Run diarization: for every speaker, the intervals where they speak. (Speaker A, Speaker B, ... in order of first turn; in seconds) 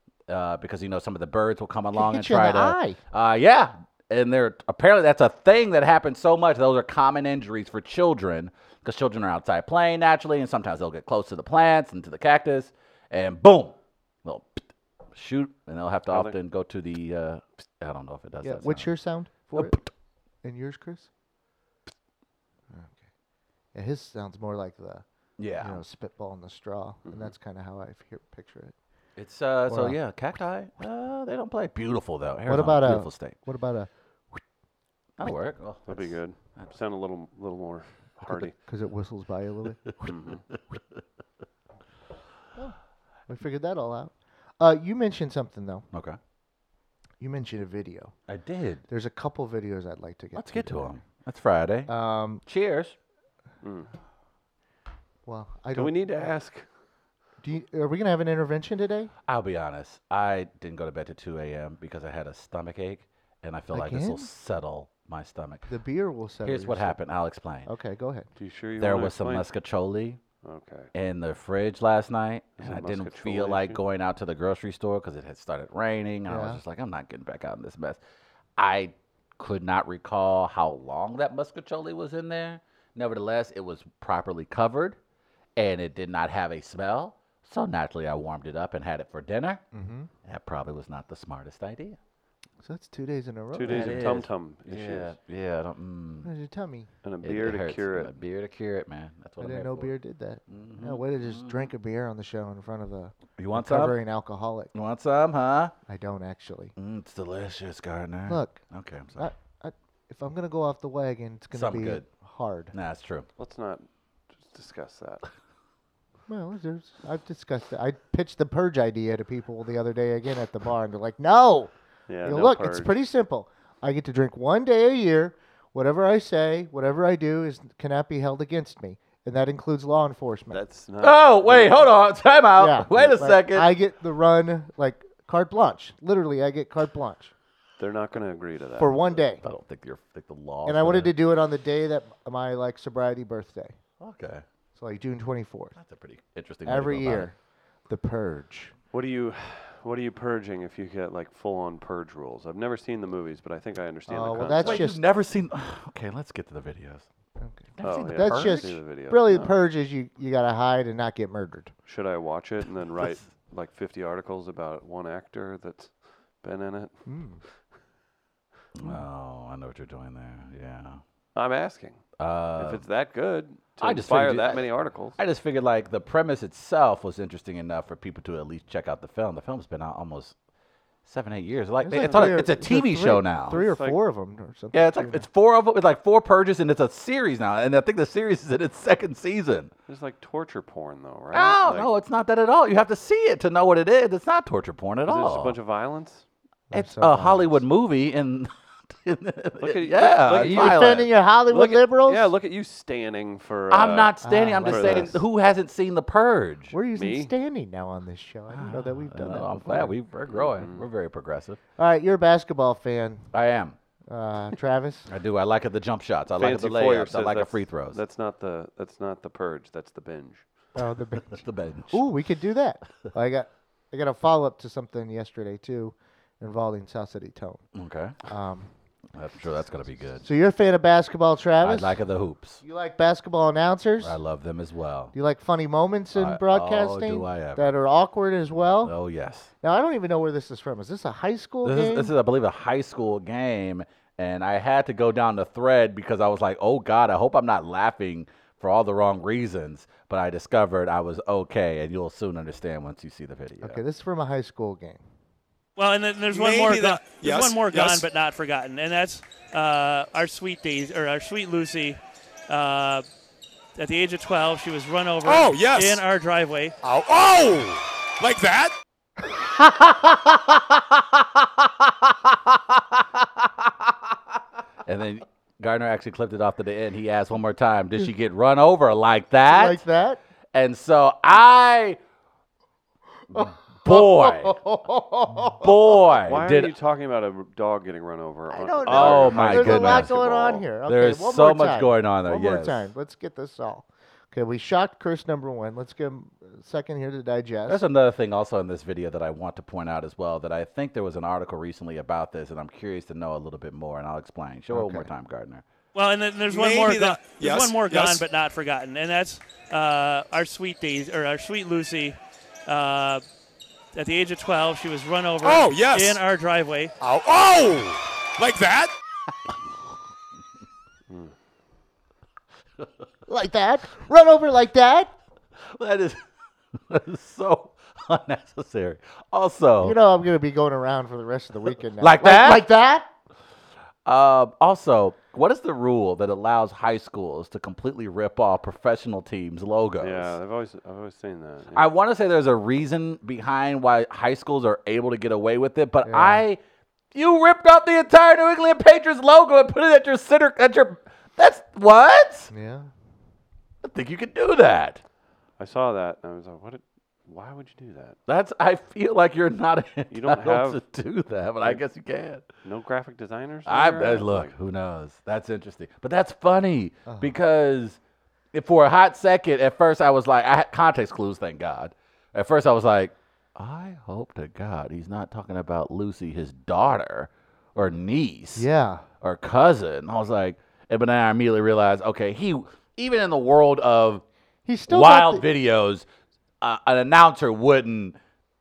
Speaker A: 0.3-18.9, 19.5-19.9, 25.4-25.8, 29.2-33.4, 35.2-36.7, 45.9-46.2, 48.3-48.9, 50.4-51.9, 52.5-53.0, 59.3-65.7, 66.4-67.7, 68.8-70.2, 70.9-78.0, 78.6-85.0, 85.6-89.6, 90.2-92.0, 93.7-96.3, 97.2-99.9, 100.5-101.7, 103.4-104.0, 104.7-105.7, 106.8-109.3, 111.5-112.1, 112.7-113.3, 131.0-133.7, 139.4-141.1, 144.0-144.4, 145.8-147.3, 154.5-157.1, 157.8-158.8, 168.8-171.0, 172.2-172.8, 173.8-180.3, 181.1-183.6, 184.7-189.7, 191.3-195.6, 196.7-201.1, 203.7-206.7, 208.5-211.6, 213.3-213.8, 215.1-218.0, 221.3-222.1, 227.8-228.2, 229.1-230.3, 231.6-232.6, 234.0-235.1, 236.2-237.7, 238.8-239.5, 241.6-253.8, 269.6-270.7, 274.9-279.8, 280.5-282.0, 283.3-284.6, 285.6-286.7, 288.9-290.1, 290.9-292.9, 297.7-305.6, 325.6-326.2, 326.8-330.0, 332.0-332.7, 334.1-340.4, 341.7-346.6, 347.1-352.5, 353.8-355.0, 358.3-362.5, 363.7-368.0, 368.5-378.7, 379.2-384.2, 384.9-386.1, 386.6-388.2
Speaker B: 1.9-3.0, 18.4-19.8, 20.4-21.1, 22.7-23.0, 23.7-25.0, 25.6-28.8, 29.7-30.0, 32.5-33.9, 38.2-40.1, 43.3-45.9, 47.2-48.1, 48.9-51.0, 51.9-52.4, 55.3-56.3, 57.4-59.1, 63.7-64.3, 65.7-67.0, 67.7-68.3, 76.3-76.6, 89.7-90.1, 92.6-94.1, 96.2-96.9, 99.4-104.7, 105.9-106.7, 108.3-108.6, 109.2-112.7, 116.3-121.7, 122.2-130.6, 132.6-137.3, 138.8-139.4, 140.7-143.8, 144.8-145.8, 146.7-147.3, 147.9-148.7, 154.1-155.0, 157.4-161.7, 167.1-167.4, 181.8-185.3, 196.7-197.6, 200.4-202.3, 204.2-205.2, 206.7-209.9, 211.8-213.3, 214.1-215.1, 220.8-227.6, 228.3-228.7, 230.2-232.0, 232.6-234.2, 235.1-238.9, 239.6-242.1, 253.6-255.0, 279.5-280.2, 283.3-286.0, 288.5-297.8, 304.7-305.1, 323.3-325.1, 329.8-333.1, 346.1-346.4, 352.5-352.9, 367.1-367.3, 378.6-379.1, 384.7-385.4
Speaker C: 16.1-16.4, 27.1-27.3, 35.9-38.5, 40.0-40.4, 53.6-53.9, 55.8-56.7, 68.4-69.5, 70.4-70.9, 72.6-73.8, 93.5-95.2, 97.0-98.2, 113.4-113.9, 114.4-115.2, 122.1-123.0, 130.5-131.9, 137.8-139.2, 148.9-154.8, 157.8-159.5, 161.9-167.1, 171.3-172.0, 172.6-175.2, 182.0-182.5, 183.5-184.0, 189.9-191.9, 195.1-196.2, 199.6-204.2, 204.7-205.2, 206.9-207.3, 210.3-210.9, 216.3-220.5, 286.2-290.6, 321.1-321.3, 340.0-341.9, 355.6-358.2, 360.1-360.8, 362.6-364.5
Speaker D: 255.8-263.1, 263.8-266.8, 305.9-313.2, 313.9-316.9
Speaker E: 256.3-258.1, 265.2-266.0, 266.8-268.7, 306.5-308.2, 315.4-316.2, 317.0-318.9